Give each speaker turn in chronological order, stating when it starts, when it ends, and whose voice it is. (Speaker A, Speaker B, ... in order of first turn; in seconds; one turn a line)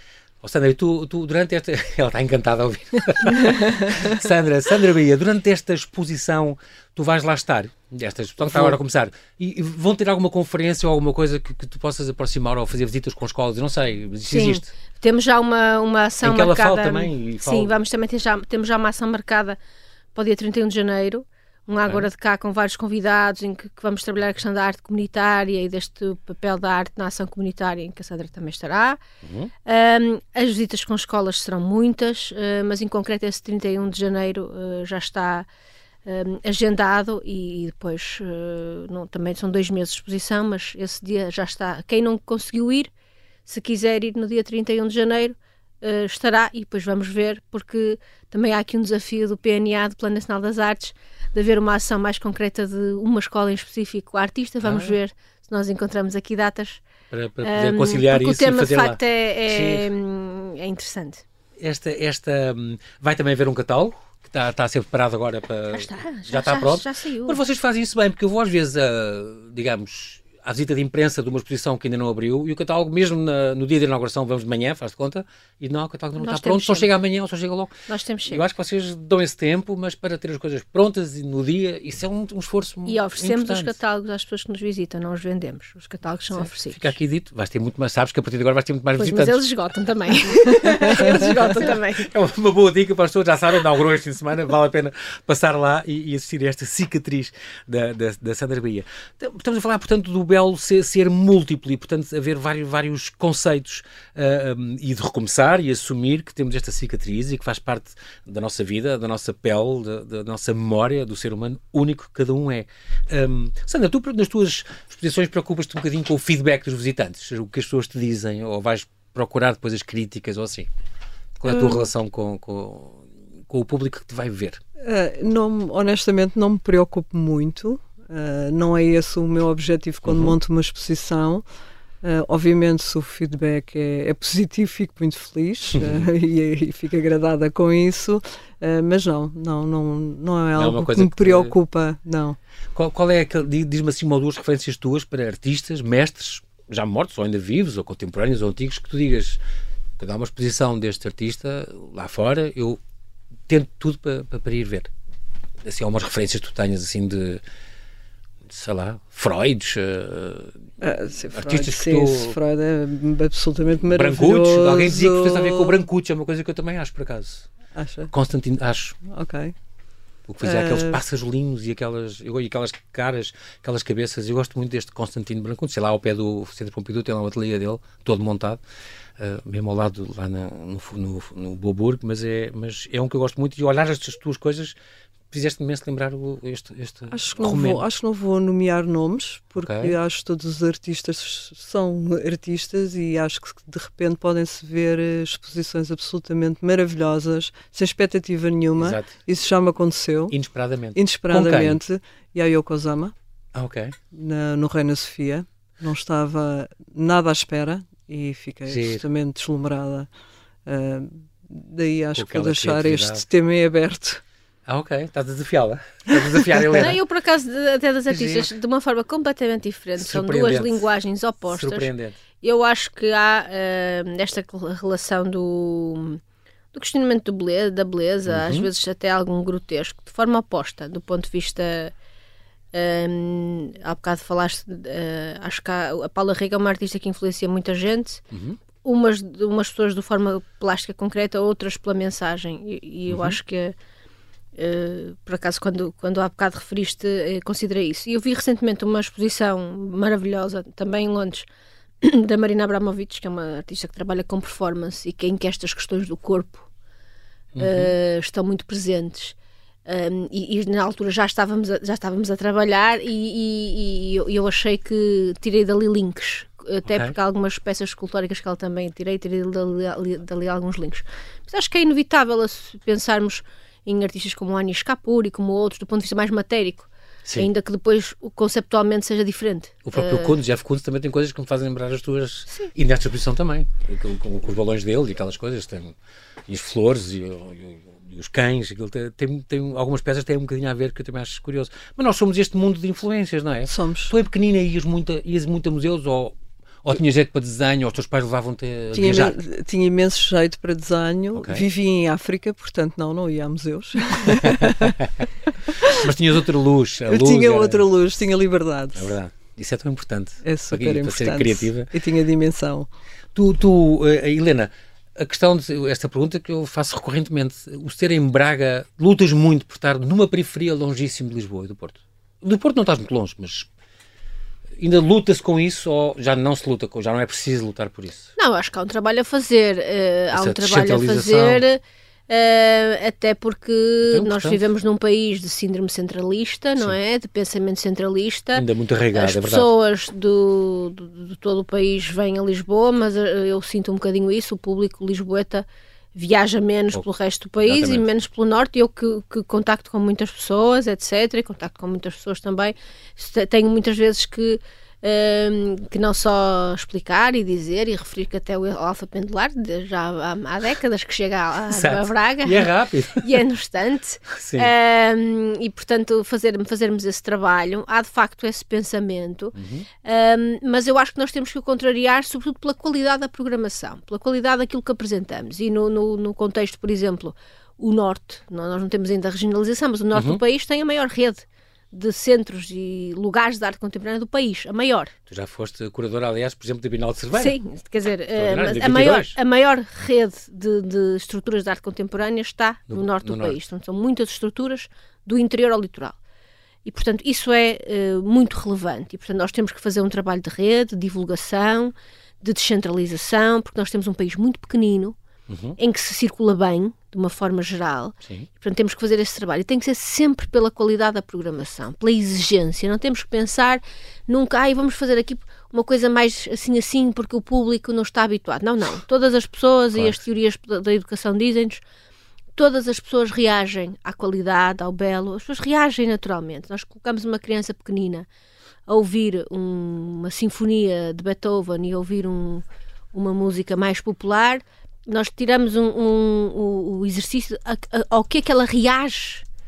Speaker A: 0.4-14.7
Speaker B: 14.3-19.6
Speaker A: 16.2-17.8
Speaker B: 20.1-29.0
Speaker A: 29.2-29.5
Speaker B: 29.6-35.5
Speaker B: 36.0-42.9
Speaker B: 43.5-56.8
Speaker A: 54.6-54.9
Speaker A: 57.1-59.9
Speaker B: 57.4-61.2
Speaker A: 61.6-77.7
Speaker B: 65.7-67.4
Speaker B: 76.2-76.9
Speaker B: 77.9-78.4
Speaker A: 78.3-83.8
Speaker B: 82.8-86.9
Speaker A: 86.3-89.4
Speaker B: 89.0-92.1
Speaker A: 90.6-120.7
Speaker A: 121.4-124.6
Speaker C: 121.5-121.8
Speaker C: 124.8-131.4
Speaker A: 130.1-130.3
Speaker C: 132.0-142.4
Speaker A: 135.8-136.1
Speaker A: 140.6-141.5
Speaker A: 142.7-149.4
Speaker A: 150.0-152.8
Speaker A: 153.5-154.9
Speaker A: 155.6-157.4
Speaker A: 158.5-160.6
Speaker C: 160.8-165.8
Speaker A: 161.3-162.4
Speaker A: 163.9-167.5
Speaker C: 167.7-168.1
Speaker A: 168.1-169.0
Speaker C: 169.1-169.5
Speaker A: 170.3-178.6
Speaker C: 170.4-171.0
Speaker A: 179.2-184.8
Speaker A: 185.3-187.8
Speaker C: 187.1-200.3
Speaker A: 189.6-190.0
Speaker A: 198.8-199.1
Speaker A: 200.3-201.8
Speaker C: 200.9-203.1
Speaker A: 203.5-203.9
Speaker C: 204.1-210.1
Speaker A: 208.7-209.0
Speaker C: 210.7-214.2
Speaker A: 212.1-213.2
Speaker A: 214.7-217.0
Speaker C: 216.4-216.8
Speaker B: 216.8-226.2
Speaker A: 218.1-218.5
Speaker A: 220.0-220.8
Speaker A: 221.4-222.2
Speaker B: 226.7-231.9
Speaker A: 228.3-228.7
Speaker B: 232.7-238.2
Speaker A: 238.3-238.6
Speaker B: 238.8-243.7
Speaker A: 243.1-243.4
Speaker B: 244.6-251.5
Speaker B: 252.0-256.7
Speaker A: 257.5-257.9
Speaker B: 257.6-280.4
Speaker A: 266.9-267.1
Speaker A: 279.8-285.9
Speaker A: 286.5-299.4
Speaker C: 293.7-294.1
Speaker C: 298.9-305.0
Speaker A: 301.3-301.6
Speaker A: 304.4-305.2
Speaker C: 305.6-306.0
Speaker A: 305.9-307.8
Speaker C: 307.1-309.2
Speaker A: 308.9-311.9
Speaker C: 310.4-312.9
Speaker A: 313.3-323.7
Speaker A: 324.8-328.3
Speaker B: 328.4-385.1
Speaker A: 330.3-331.6
Speaker A: 334.0-334.6
Speaker A: 338.5-339.7
Speaker A: 347.6-348.1
Speaker A: 361.7-363.4
Speaker A: 364.3-364.7
Speaker A: 369.5-369.9
Speaker A: 380.1-380.4
Speaker A: 385.3-387.6
Speaker B: 387.3-396.2
Speaker A: 388.3-389.4
Speaker A: 392.9-393.6
Speaker B: 396.9-405.2
Speaker A: 405.5-405.8
Speaker B: 405.8-421.8
Speaker A: 419.9-420.2
Speaker B: 422.6-428.3
Speaker B: 428.9-439.4